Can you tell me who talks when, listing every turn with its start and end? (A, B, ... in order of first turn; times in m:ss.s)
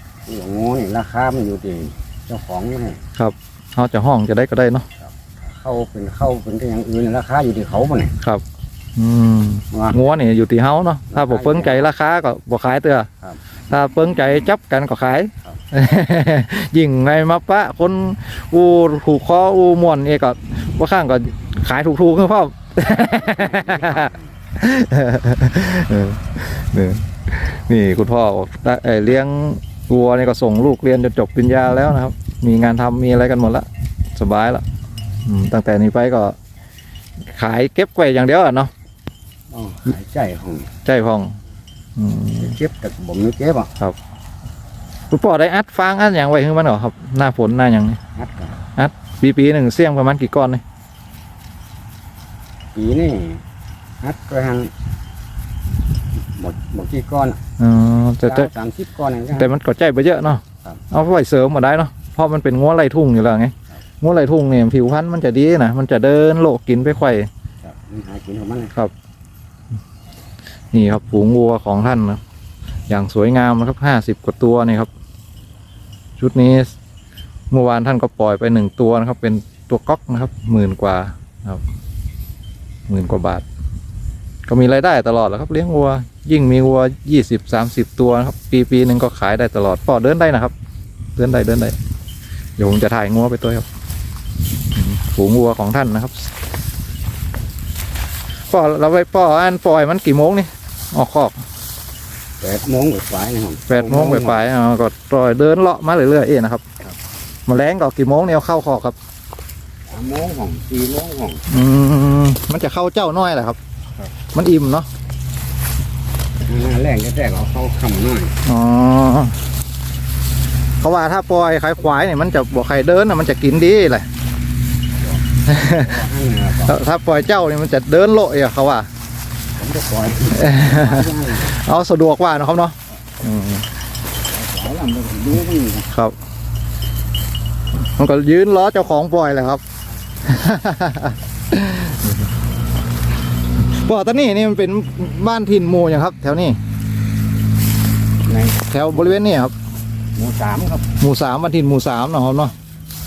0:00.3-0:03.0 A
0:03.2-0:04.9 B
0:05.0-0:08.2 A
0:09.0-0:13.1 B
0:09.7-0:10.0 A
0:11.1-0:11.9 A
0:13.7-0:34.6 B
0:23.2-0:24.3 A
0:35.2-0:36.4 B
0:37.3-0:38.7 B
0:39.5-0:40.7 A
0:40.8-0:41.4 B
0:42.0-0:42.5 B
0:42.3-0:43.7 A
0:45.1-0:48.0 B
0:48.2-0:48.6 A
0:48.8-0:50.6 B
0:52.8-0:53.4 A
0:54.0-0:54.7 A
0:56.4-0:57.4 A
0:57.6-0:58.5 B
0:58.2-0:59.5 A
0:59.3-1:07.3 B
1:07.6-1:08.8 A
1:10.7-1:12.2 B
1:12.9-1:14.9 B
1:16.2-1:16.8 B
1:17.5-1:21.6 B
1:22.9-1:23.4 B
1:24.5-1:30.5 B
1:31.2-1:31.8 B
1:32.6-1:33.6 B
1:34.7-1:36.3 B
1:38.5-1:41.4 B
1:42.4-1:44.4 A
1:43.7-1:46.6 B
1:47.5-1:49.0 B
1:49.9-1:51.4 A
1:51.5-1:53.6 B
1:54.3-1:54.9 B
1:56.4-1:58.4 A
1:58.5-1:59.4 B
2:00.8-2:04.1 B
2:05.0-2:06.8 A
2:05.5-2:05.8 B
2:06.6-2:08.9 B
2:09.6-2:11.5 A
2:10.4-2:13.7 B
2:14.2-2:15.9 A
2:17.8-2:19.6 B
2:20.3-2:22.2 B
2:23.6-2:26.6 B
2:28.2-2:29.2 A
2:28.7-2:29.5 B
2:30.2-2:30.9 A
2:31.0-2:32.5 B